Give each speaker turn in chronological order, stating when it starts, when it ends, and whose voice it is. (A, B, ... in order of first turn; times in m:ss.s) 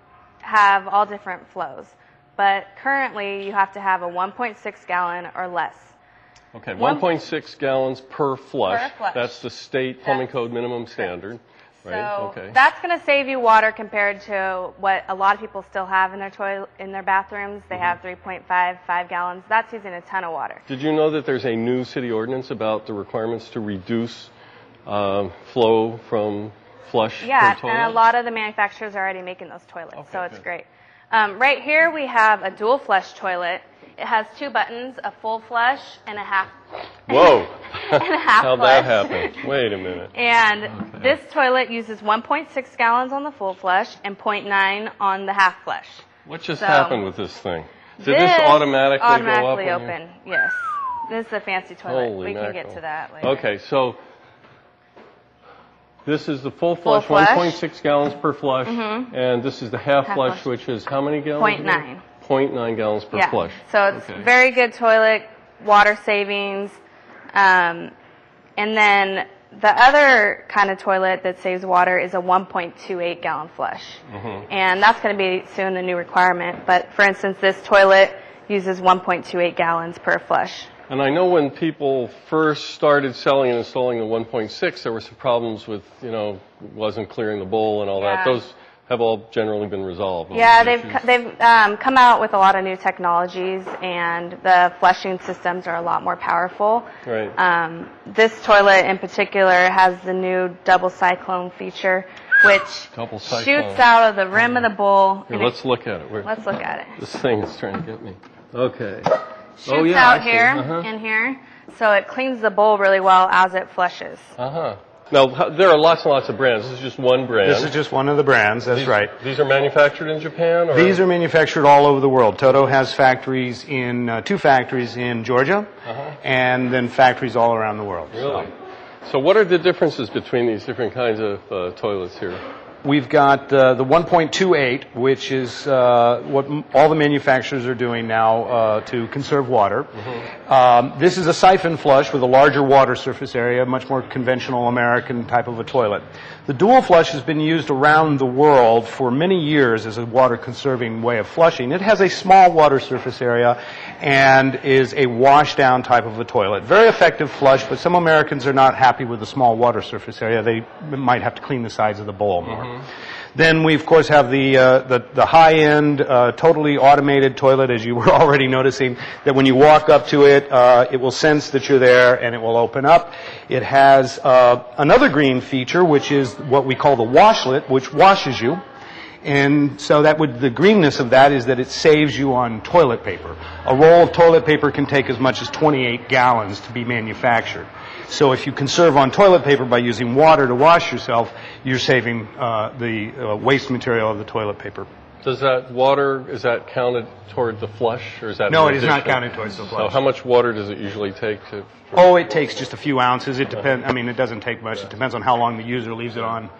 0:00.4-0:05.9 A
0:06.5-0:12.6 B
0:06.8-0:07.0 A
0:08.7-0:09.4 A
0:11.8-0:20.6 A
0:17.7-0:18.0 B
0:20.7-0:24.3 B
0:24.8-0:28.0 B
0:27.2-0:36.5 A
0:29.9-0:30.4 B
0:37.1-0:40.1 B
0:37.1-0:39.4 A
0:40.1-0:46.0 A
0:40.7-0:41.1 B
0:46.2-0:49.9 B
0:46.6-0:47.0 A
0:48.0-0:53.4 A
0:51.8-0:54.0 B
0:56.0-1:04.3 B
0:56.8-0:57.6 A
0:58.6-0:59.1 A
1:00.1-1:00.4 A
1:01.4-1:02.0 A
1:03.1-1:06.8 A
1:07.3-1:07.9 A
1:08.6-1:20.7 A
1:14.1-1:14.4 B
1:20.9-1:31.0 B
1:28.0-1:28.4 A
1:30.3-1:45.6 A
1:37.0-1:37.3 B
1:42.9-1:43.8 B
1:45.3-1:46.3 B
1:46.2-1:47.0 A
1:47.0-1:50.9 B
1:49.6-1:54.3 A
1:54.4-1:57.7 B
1:57.4-1:59.1 C
1:58.7-2:01.0 B
2:00.7-2:05.7 C
2:05.8-2:06.1 B
2:06.2-2:08.5 C
2:08.1-2:08.5 B
2:09.0-2:12.4 B
2:12.8-2:19.9 C
2:20.5-2:42.8 C
2:43.3-2:58.6 C
2:59.2-3:14.9 C
3:15.2-3:22.2 B
3:18.5-3:20.0 C
3:21.9-3:26.5 C